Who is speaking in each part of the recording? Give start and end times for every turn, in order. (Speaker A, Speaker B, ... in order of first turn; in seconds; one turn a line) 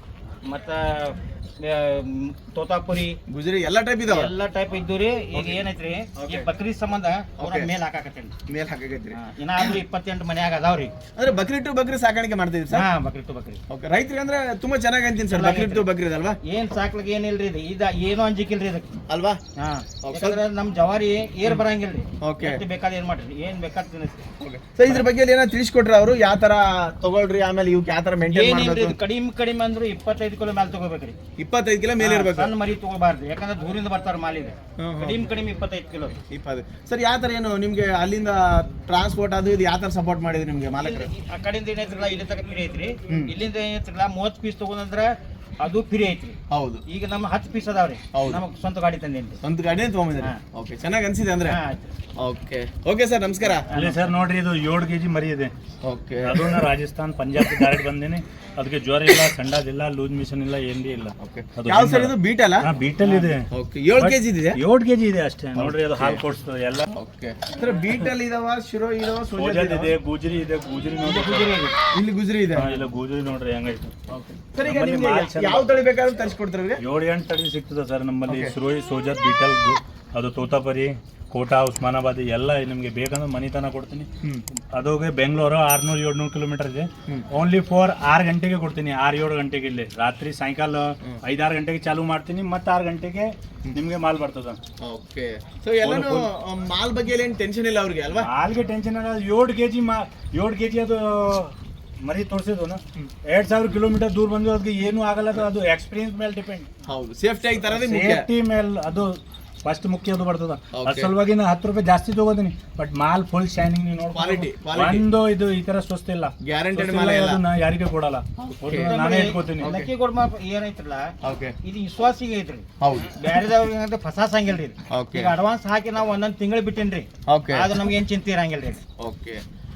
Speaker A: 0.4-3.2
Speaker B: 3.3-4.3
Speaker A: 4.1-8.3
Speaker B: 5.3-5.6
Speaker B: 6.2-6.5
Speaker B: 7.4-7.7
Speaker B: 8.5-9.8
Speaker A: 9.1-10.9
Speaker B: 11.2-12.9
Speaker A: 12.7-13.6
Speaker B: 13.7-16.4
Speaker A: 15.3-15.9
Speaker A: 16.4-18.9
Speaker B: 19.1-19.4
Speaker A: 19.6-24.3
Speaker B: 20.0-20.4
Speaker B: 22.2-22.6
Speaker B: 24.4-29.0
Speaker A: 28.3-31.2
Speaker B: 31.4-32.5
Speaker A: 32.0-36.2
Speaker B: 34.8-35.2
Speaker B: 36.3-41.1
Speaker A: 40.8-49.4
Speaker B: 43.1-43.3
Speaker B: 46.5-46.8
Speaker B: 48.1-48.4
Speaker B: 49.4-51.6
Speaker A: 51.5-52.0
Speaker B: 52.2-53.7
Speaker A: 53.5-54.0
Speaker C: 53.7-55.5
Speaker B: 55.8-56.7
Speaker C: 56.2-66.9
Speaker B: 61.2-62.7
Speaker A: 63.0-63.3
Speaker B: 63.5-64.6
Speaker B: 65.5-66.2
Speaker B: 66.9-69.9
Speaker C: 69.4-71.6
Speaker A: 71.0-71.8
Speaker B: 71.9-72.7
Speaker C: 72.5-74.0
Speaker B: 74.1-76.8
Speaker C: 74.6-75.7
Speaker C: 76.8-84.1
Speaker B: 78.3-78.5
Speaker C: 84.7-94.6
Speaker B: 94.8-98.3
Speaker C: 95.8-96.3
Speaker C: 98.1-106.7
Speaker B: 106.9-108.3
Speaker C: 107.7-119.7
Speaker B: 110.7-111.1
Speaker B: 114.1-115.1
Speaker B: 116.4-117.4
Speaker B: 118.6-118.9
Speaker A: 118.8-121.1
Speaker B: 119.6-119.9
Speaker B: 121.2-121.5
Speaker A: 121.6-128.8
Speaker B: 122.8-123.4
Speaker B: 124.9-125.3
Speaker B: 127.3-127.9
Speaker B: 129.0-129.4